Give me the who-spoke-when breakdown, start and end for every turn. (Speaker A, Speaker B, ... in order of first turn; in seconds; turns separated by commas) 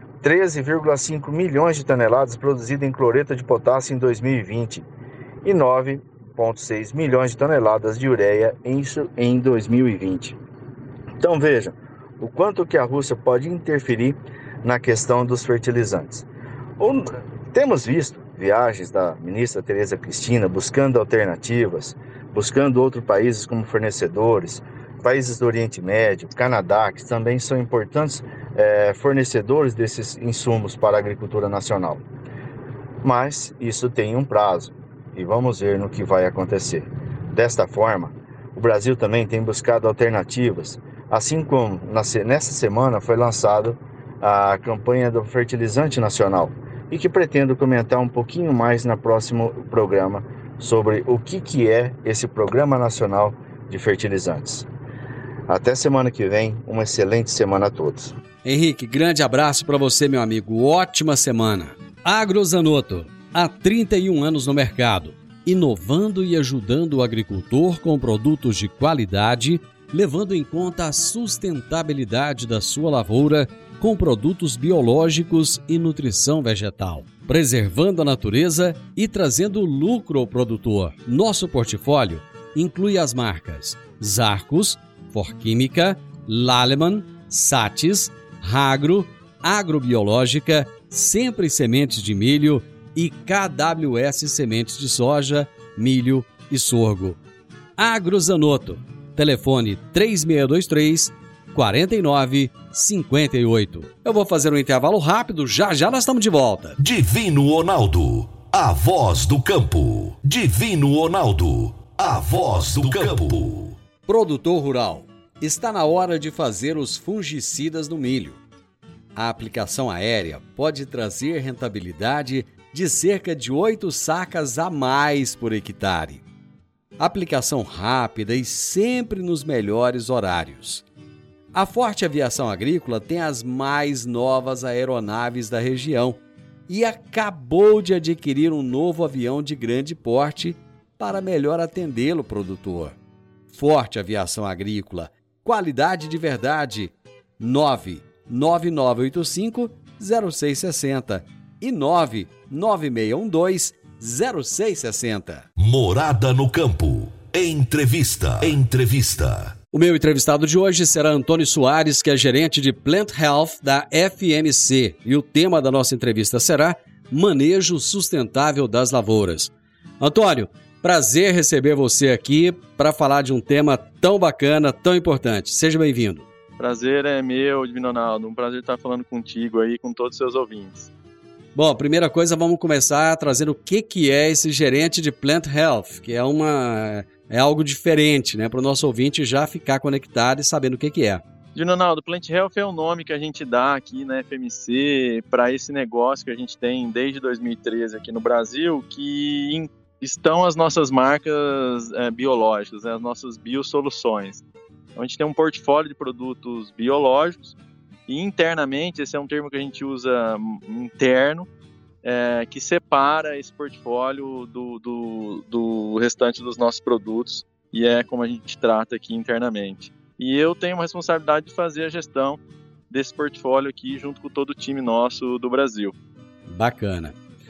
Speaker A: 0.2-4.8, Speaker A: 5.4-10.4, Speaker A: 11.2-16.2, Speaker A: 16.8-32.0, Speaker A: 33.0-54.7, Speaker A: 55.5-58.1, Speaker B: 58.4-97.2, Speaker B: 97.8-106.8, Speaker C: 106.8-113.8, Speaker B: 114.1-118.4, Speaker B: 119.1-126.2, Speaker B: 127.0-130.8, Speaker B: 131.5-142.9, Speaker B: 143.5-155.4, Speaker C: 155.6-159.5, Speaker B: 159.7-176.3, Speaker D: 176.6-180.9, Speaker B: 181.5-191.2, Speaker D: 191.5-204.4, Speaker D: 204.9-207.5, Speaker D: 208.1-211.5, Speaker D: 212.0-225.9, Speaker B: 226.5-227.2